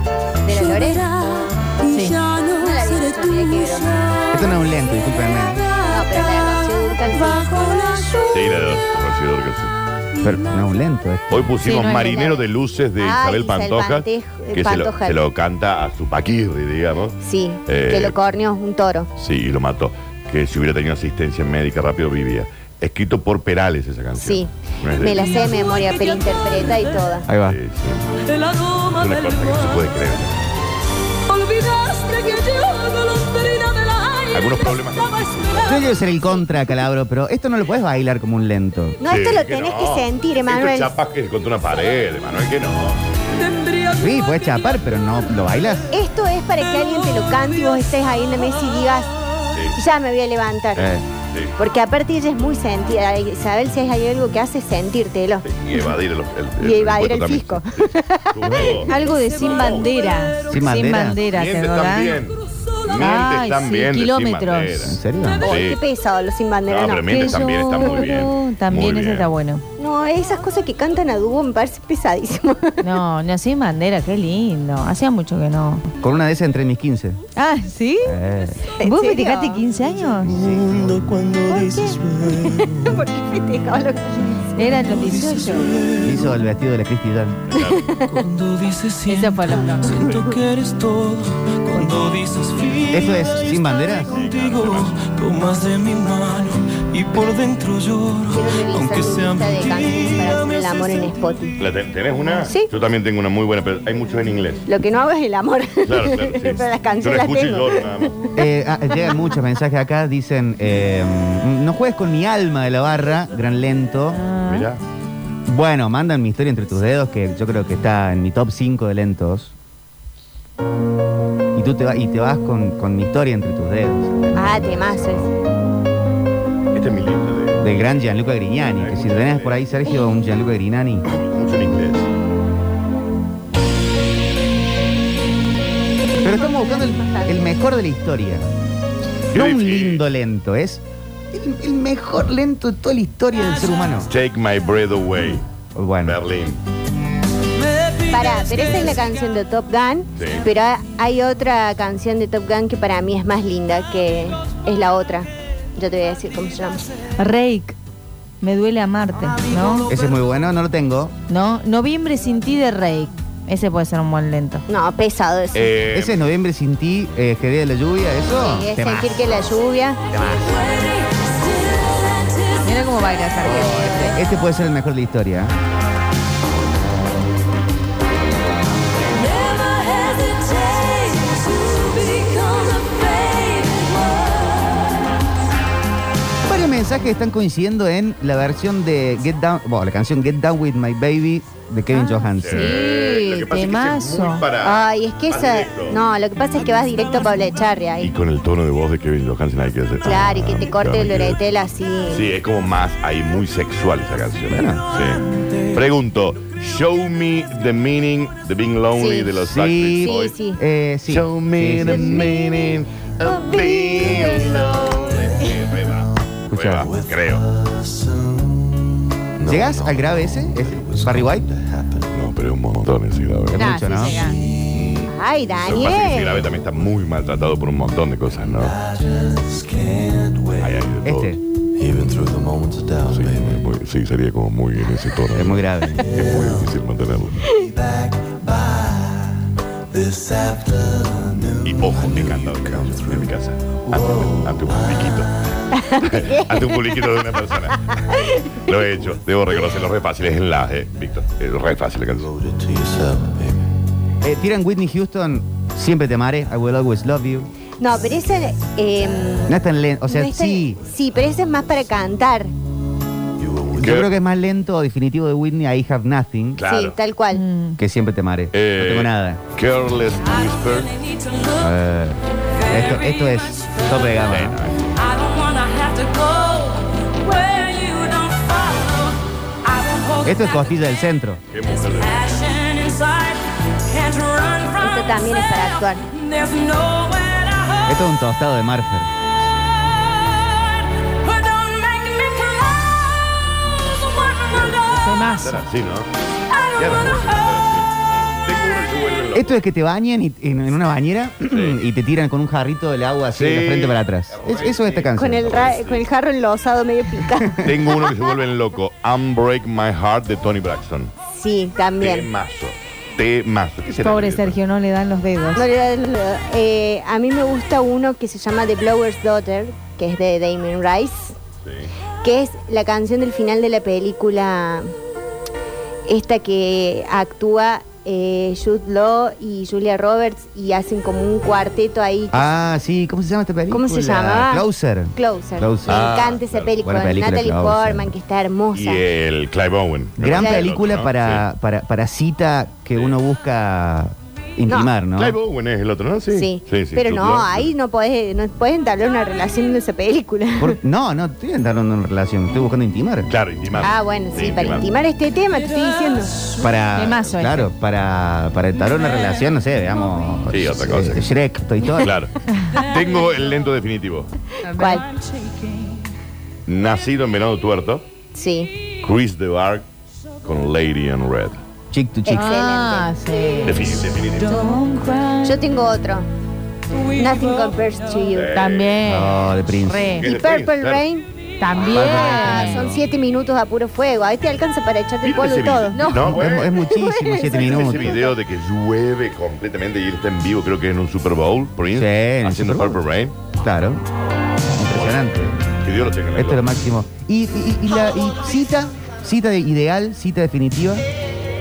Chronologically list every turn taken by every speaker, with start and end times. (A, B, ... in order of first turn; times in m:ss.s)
0:00.4-0:01.5 A
0:01.8-0:02.3 B
0:02.4-0:04.2 A
0:04.3-0:05.7 C
0:05.8-0:08.3 A
0:08.3-0:09.7 D
0:10.2-0:11.6 C
0:11.3-0:18.2 D
0:11.6-0:12.3 B
0:11.8-0:12.4 A
0:13.0-0:15.2 A
0:17.2-0:19.1 A
0:19.2-0:25.4 D
0:24.2-0:27.2 A
0:27.2-0:27.6 C
0:27.5-0:28.1 D
0:28.8-0:30.4 D
0:31.3-0:34.1 E
0:31.4-0:34.1 F
0:34.2-0:36.1 D
0:35.6-0:39.0 C
0:39.0-0:40.9 A
0:39.0-0:43.6 D
0:44.0-0:45.9 C
0:45.9-0:49.1 A
0:49.8-0:51.0 A
0:50.8-0:51.6 D
0:50.8-0:51.0 C
0:51.6-0:55.9 A
0:55.4-0:59.9 D
0:56.6-0:59.8 A
0:58.9-1:02.2 B
1:00.5-1:01.2 C
1:01.3-1:05.8 D
1:03.0-1:04.9 B
1:04.8-1:05.5 C
1:05.4-1:07.4 A
1:06.6-1:09.3 D
1:07.1-1:09.6 B
1:09.8-1:12.8 A
1:12.8-1:15.9 B
1:16.0-1:17.2 C
1:17.4-1:18.2 B
1:18.0-1:18.6 C
1:18.8-1:19.6 A
1:18.8-1:20.3 B
1:20.2-1:21.1 D
1:20.2-1:23.1 E
1:21.5-1:24.7 A
1:21.5-1:21.9 B
1:24.6-1:25.7 B
1:24.8-1:26.4 E
1:26.0-1:27.4 C
1:27.5-1:28.0 D
1:27.5-1:28.0 A
1:28.1-1:41.2 E
1:29.1-1:29.9 B
1:32.9-1:34.2 C
1:34.0-1:35.0 D
1:38.3-1:41.6 A
1:41.6-1:44.6 D
1:42.4-1:42.7 A
1:44.7-1:48.3 A
1:45.8-1:48.2 D
1:48.4-1:54.2 C
1:54.1-1:54.7 B
1:54.4-1:54.8 D
1:55.5-1:59.5 C
2:01.5-2:05.3 C
2:04.3-2:05.3 A
2:06.7-2:07.7 D
2:07.6-2:11.0 C
2:08.7-2:09.7 D
2:11.0-2:12.1 D
2:16.2-2:18.5 C
2:16.2-2:17.3 A
2:19.3-2:20.8 C
2:19.3-2:20.0 D
2:21.3-2:24.1 C
2:24.1-2:25.5 D
2:25.8-2:26.2 C
2:26.0-2:26.6 D
2:28.0-2:36.8 A
2:30.2-2:30.4 D
2:37.2-2:37.8 B
2:38.4-2:39.9 B
2:39.9-2:41.1 C
2:41.3-2:44.6 B
2:44.7-2:45.8 A
2:45.5-2:46.2 D
2:45.9-2:49.4 C
2:48.3-2:50.0 A
2:50.1-2:50.6 C
2:52.6-2:54.2 B
2:53.4-2:55.5 C
2:53.4-2:54.2 A
2:59.3-2:59.6 D
3:06.4-3:12.7 C
3:11.9-3:14.4 B
3:12.4-3:16.0 D
3:14.6-3:18.1 A
3:18.0-3:21.4 D
3:20.0-3:22.2 A
3:22.1-3:30.4 D
3:24.5-3:24.8 C
3:29.0-3:29.4 A
3:29.4-3:32.5 C
3:30.0-3:30.6 A
3:31.1-3:37.4 D
3:31.8-3:32.7 A
3:33.3-3:35.4 A
3:36.5-3:36.9 C
3:36.8-3:42.1 E
3:39.4-3:39.7 D
3:39.5-3:41.5 C
3:42.1-3:43.7 D
3:43.5-3:44.2 C
3:43.5-3:44.4 B
3:44.2-3:45.0 E
3:44.7-3:45.1 D
3:45.0-3:46.4 A
3:45.6-3:48.8 D
3:48.4-3:50.9 E
3:50.6-3:51.4 D
3:51.0-3:51.4 C
3:51.8-3:53.6 E
3:53.1-3:57.4 D
3:55.3-3:56.1 C
3:56.0-3:56.7 E
3:57.6-3:59.3 E
3:59.9-4:03.3 E
4:01.6-4:05.3 D
4:03.8-4:05.2 E
4:05.7-4:07.0 A
4:06.0-4:12.3 D
4:12.2-4:13.6 E
4:14.2-4:17.5 C
4:17.8-4:22.5 A
4:19.5-4:20.8 C
4:23.4-4:23.8 E
4:23.7-4:24.1 D
4:23.8-4:26.6 C
4:26.6-4:27.0 D
4:26.7-4:27.4 A
4:27.3-4:27.8 B
4:27.8-4:29.4 C
4:28.5-4:31.0 D
4:31.6-4:34.6 C
4:34.3-4:35.2 D
4:35.4-4:38.9 F
4:39.8-4:40.1 F
4:40.2-4:41.4 C
4:41.5-4:42.9 D
4:43.0-4:43.3 F
4:43.9-4:44.7 F
4:44.7-4:46.1 A
4:46.3-4:47.7 F
4:47.8-4:49.1 C
4:51.4-4:52.6 F
4:54.3-4:56.1 D
4:54.8-4:55.6 B
4:56.7-4:59.6 D
4:59.3-5:05.5 C
5:01.5-5:01.8 D
5:03.3-5:06.0 D
5:05.2-5:08.2 A
5:07.6-5:11.1 D
5:11.3-5:12.3 A
5:12.0-5:14.6 D
5:14.0-5:15.6 B
5:15.5-5:21.4 A
5:21.6-5:21.9 D
5:22.2-5:24.9 A
5:26.1-5:32.4 A
5:32.3-5:36.1 C
5:33.7-5:34.6 A
5:35.2-5:39.0 A
5:35.9-5:36.8 D
5:36.8-5:38.1 C
5:38.7-5:41.4 D
5:40.2-5:45.4 C
5:40.3-5:40.7 A
5:45.2-5:47.7 D
5:46.3-5:50.8 A
5:50.6-5:53.3 C
5:53.3-5:54.9 D
5:53.8-5:56.5 A
5:56.6-6:02.2 C
5:56.9-5:57.7 B
6:00.5-6:01.3 D
6:02.0-6:04.3 D
6:04.6-6:05.0 B
6:04.6-6:05.0 A
6:06.7-6:08.0 D
6:08.3-6:08.7 A
6:09.0-6:09.8 D
6:10.4-6:11.6 D
6:11.9-6:12.5 C
6:12.3-6:13.1 A
6:12.3-6:13.8 B
6:13.6-6:14.8 D
6:14.4-6:15.5 B
6:15.4-6:16.3 A
6:17.0-6:18.6 A
6:18.3-6:19.0 D
6:18.5-6:20.3 B
6:19.0-6:20.2 C
6:20.2-6:21.0 D
6:20.2-6:21.3 A
6:21.6-6:22.9 B
6:21.8-6:23.0 C
6:21.8-6:26.0 A
6:25.2-6:26.8 D
6:25.9-6:26.4 B
6:26.1-6:28.2 C
6:26.7-6:28.4 A
6:27.5-6:33.4 D
6:31.9-6:33.0 C
6:33.5-6:34.0 C
6:34.7-6:35.6 C
6:34.9-6:36.7 D
6:36.3-6:41.0 C